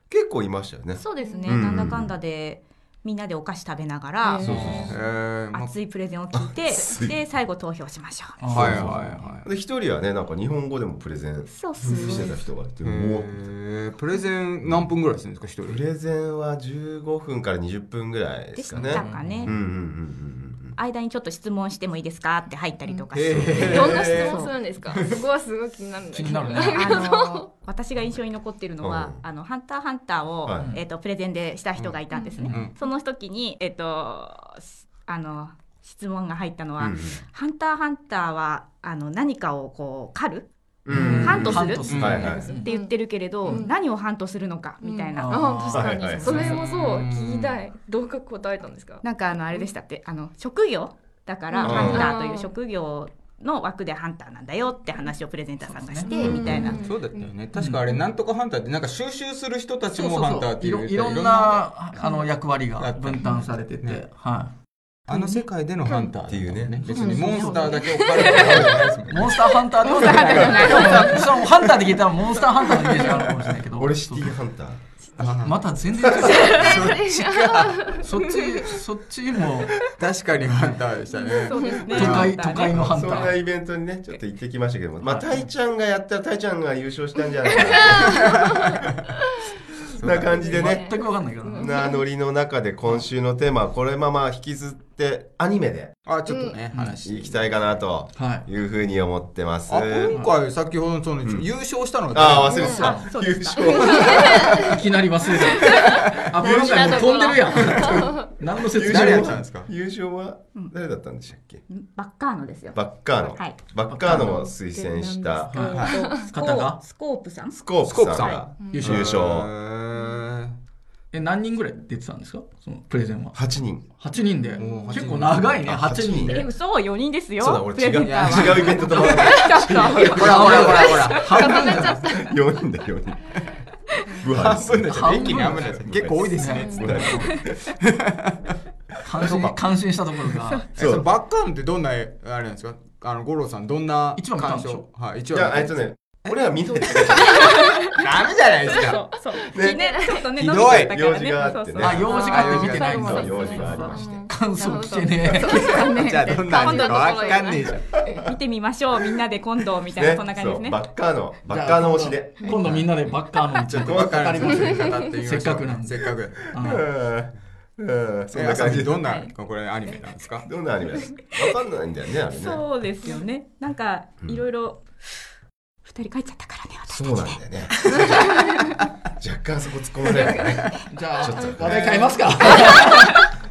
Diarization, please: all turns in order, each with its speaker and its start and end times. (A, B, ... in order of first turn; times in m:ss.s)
0:00.1-0:02.1 A
0:00.9-0:08.6 B
0:01.2-0:01.6 C
0:04.2-0:04.9 C
0:04.4-0:05.0 A
0:04.4-0:05.7 D
0:06.3-0:07.2 A
0:08.4-0:09.3 E
0:08.5-0:13.4 A
0:08.5-0:09.5 D
0:11.5-0:12.4 B
0:12.8-0:15.8 D
0:15.6-0:20.8 A
0:18.5-0:19.5 B
0:18.8-0:19.5 E
0:20.8-0:24.6 B
0:23.1-0:25.1 D
0:23.3-0:24.4 A
0:23.6-0:27.5 C
0:26.1-0:27.0 E
0:26.6-0:40.5 B
0:28.8-0:29.2 A
0:30.4-0:30.7 A
0:30.6-0:30.8 E
0:31.8-0:32.8 D
0:32.1-0:32.5 C
0:32.4-0:32.6 E
0:36.8-0:37.2 A
0:40.8-0:42.5 A
0:40.9-0:42.7 E
0:40.9-0:41.6 C
0:41.0-0:46.5 B
0:41.9-0:42.3 D
0:42.2-0:43.8 C
0:44.8-0:49.7 C
0:45.1-0:46.6 E
0:45.7-0:46.5 A
0:46.3-0:47.6 D
0:49.0-0:56.8 B
0:51.5-0:52.5 C
0:51.6-0:52.1 A
0:51.8-0:52.1 D
0:55.6-0:56.6 E
0:56.1-0:57.3 C
0:56.2-0:56.8 A
0:56.8-1:02.2 D
0:57.5-0:57.8 E
0:59.9-1:04.5 E
1:02.8-1:04.0 D
1:05.1-1:09.5 D
1:05.1-1:06.1 C
1:06.3-1:07.3 A
1:06.9-1:08.7 C
1:07.3-1:07.8 E
1:08.1-1:08.6 B
1:08.3-1:08.7 A
1:09.1-1:14.3 E
1:09.8-1:11.4 B
1:09.9-1:11.2 A
1:13.7-1:14.8 A
1:15.2-1:15.6 D
1:15.4-1:16.9 E
1:16.0-1:16.6 A
1:16.2-1:18.7 C
1:16.6-1:17.9 D
1:18.0-1:19.7 E
1:20.0-1:22.9 D
1:21.1-1:23.3 B
1:21.5-1:21.8 C
1:21.9-1:23.4 E
1:22.6-1:28.6 A
1:25.0-1:25.5 E
1:27.4-1:28.8 C
1:30.0-1:30.6 D
1:30.0-1:30.9 A
1:30.4-1:32.0 C
1:30.4-1:31.7 E
1:31.6-1:35.9 A
1:36.0-1:37.8 D
1:36.2-1:36.6 C
1:37.0-1:40.2 A
1:38.1-1:38.5 E
1:39.7-1:42.8 D
1:41.2-1:44.6 A
1:42.4-1:42.9 C
1:42.5-1:44.2 B
1:42.8-1:43.1 E
1:43.6-1:44.8 C
1:44.6-1:49.4 E
1:45.4-1:48.2 C
1:46.4-1:51.6 A
1:46.6-1:47.5 B
1:48.8-1:49.7 D
1:51.7-1:53.6 B
1:52.7-1:55.5 A
1:53.9-1:54.4 E
1:54.1-1:56.3 C
1:55.5-1:56.8 E
1:55.5-1:58.5 B
1:55.7-1:56.0 D
1:57.5-1:59.5 A
1:57.8-2:00.6 D
1:58.6-1:58.8 C
1:58.7-1:59.1 E
2:01.1-2:06.5 E
2:03.3-2:03.8 A
2:04.6-2:05.6 D
2:05.1-2:06.5 A
2:06.3-2:11.8 B
2:07.4-2:11.0 A
2:07.9-2:11.7 D
2:10.2-2:12.1 E
2:11.4-2:12.3 C
2:11.8-2:13.4 A
2:13.9-2:14.2 B
2:14.2-2:17.5 A
2:14.3-2:17.1 D
2:14.9-2:15.7 E
2:16.3-2:17.3 E
2:16.6-2:17.0 C
2:17.8-2:18.2 D
2:19.0-2:20.6 E
2:19.2-2:19.6 D
2:20.7-2:27.0 D
2:20.8-2:21.1 A
2:24.2-2:24.9 E
2:25.3-2:27.7 A
2:27.2-2:28.0 B
2:27.3-2:27.7 C
2:28.0-2:29.0 D
2:28.6-2:33.9 B
2:28.6-2:30.3 C
2:29.5-2:32.1 A
2:30.4-2:31.0 D
2:31.8-2:35.5 E
2:32.1-2:33.3 D
2:32.1-2:32.6 C
2:32.8-2:34.3 A
2:33.1-2:38.2 C
2:34.7-2:40.8 B
2:35.3-2:38.0 D
2:39.9-2:42.6 A
2:41.5-2:46.8 E
2:42.5-2:46.7 D
2:43.8-2:44.3 A
2:46.6-2:49.1 A
2:48.3-2:50.4 D
2:49.0-2:49.3 B
2:50.4-2:52.7 A
2:52.3-2:55.3 B
2:55.8-2:58.6 B
2:56.9-2:58.5 A
2:59.2-3:02.1 A
3:00.9-3:03.2 E
3:01.3-3:02.1 C
3:01.8-3:02.2 D
3:02.7-3:03.1 B